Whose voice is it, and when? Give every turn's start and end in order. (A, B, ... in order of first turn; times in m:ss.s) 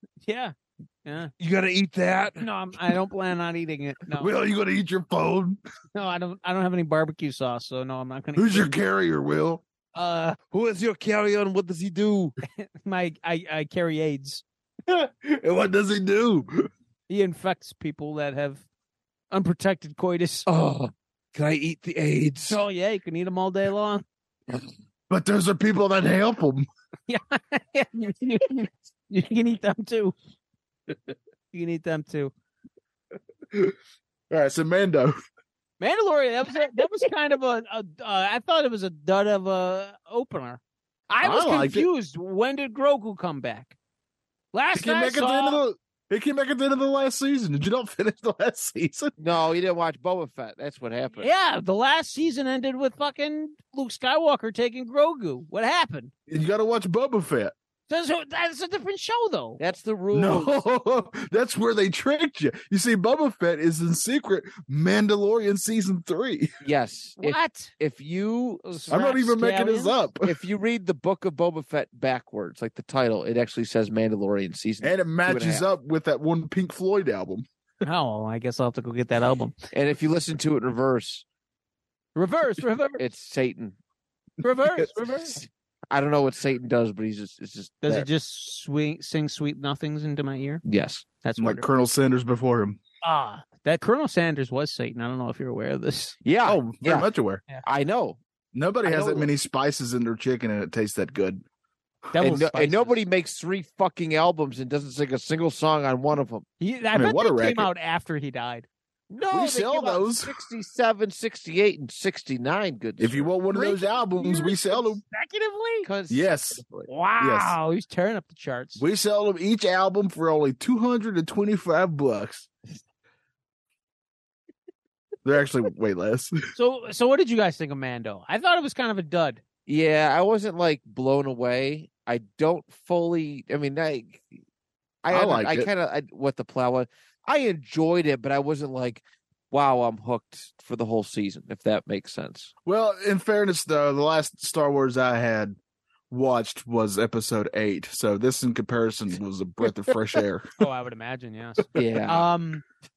0:00.2-0:00.5 A
0:01.0-0:01.3 A
0:01.4-0:02.5 B
0:02.4-0:04.3 A
0:04.2-0:05.6 C
0:05.9-0:08.7 A
0:08.4-0:09.6 C
0:09.9-0:10.4 A
0:10.5-0:12.4 B
0:12.5-0:14.4 A
0:14.9-0:16.7 C
0:17.1-0:18.6 A
0:19.3-0:20.5 A
0:20.5-0:22.6 B
0:22.5-0:24.0 A
0:25.1-0:26.7 C
0:27.1-0:30.2 A
0:31.5-0:32.3 A
0:34.3-0:35.1 C
0:35.8-0:43.8 A
0:41.2-0:41.9 C
0:44.5-0:45.6 A
0:44.7-0:49.1 C
0:49.2-0:51.3 B
0:51.2-0:56.1 A
0:56.3-0:57.5 C
0:57.9-0:59.6 A
0:59.6-1:00.5 B
1:00.1-1:06.5 C
1:06.6-1:08.8 B
1:07.2-1:07.7 A
1:08.7-1:10.0 A
1:08.9-1:10.4 C
1:10.2-1:15.6 B
1:14.8-1:17.4 C
1:17.8-1:19.6 A
1:19.7-1:21.2 B
1:22.2-1:23.0 A
1:23.0-1:23.8 B
1:24.4-1:25.4 A
1:25.3-1:28.1 B
1:27.8-1:30.6 A
1:30.6-1:31.0 B
1:31.2-1:31.6 A
1:31.4-1:32.8 C
1:33.0-1:36.2 A
1:36.2-1:37.1 B
1:36.4-1:37.4 C
1:37.6-1:38.2 B
1:38.5-1:41.4 C
1:38.8-1:39.3 B
1:42.1-1:42.4 C
1:42.2-1:43.0 A
1:42.2-1:46.4 B
1:46.6-1:48.7 A
1:47.0-1:47.7 C
1:49.1-1:53.8 B
1:49.3-1:50.3 C
1:53.0-1:55.0 C
1:54.2-1:55.9 A
1:55.8-1:56.3 B
1:56.1-1:57.6 C
1:56.9-1:58.8 A
1:58.8-2:02.5 C
2:05.2-2:06.3 C
2:06.6-2:09.4 A
2:09.7-2:14.3 B
2:15.0-2:22.5 B
2:15.1-2:15.7 C
2:22.6-2:25.6 C
2:26.1-2:30.5 C
2:30.6-2:32.6 A
2:31.8-2:32.3 B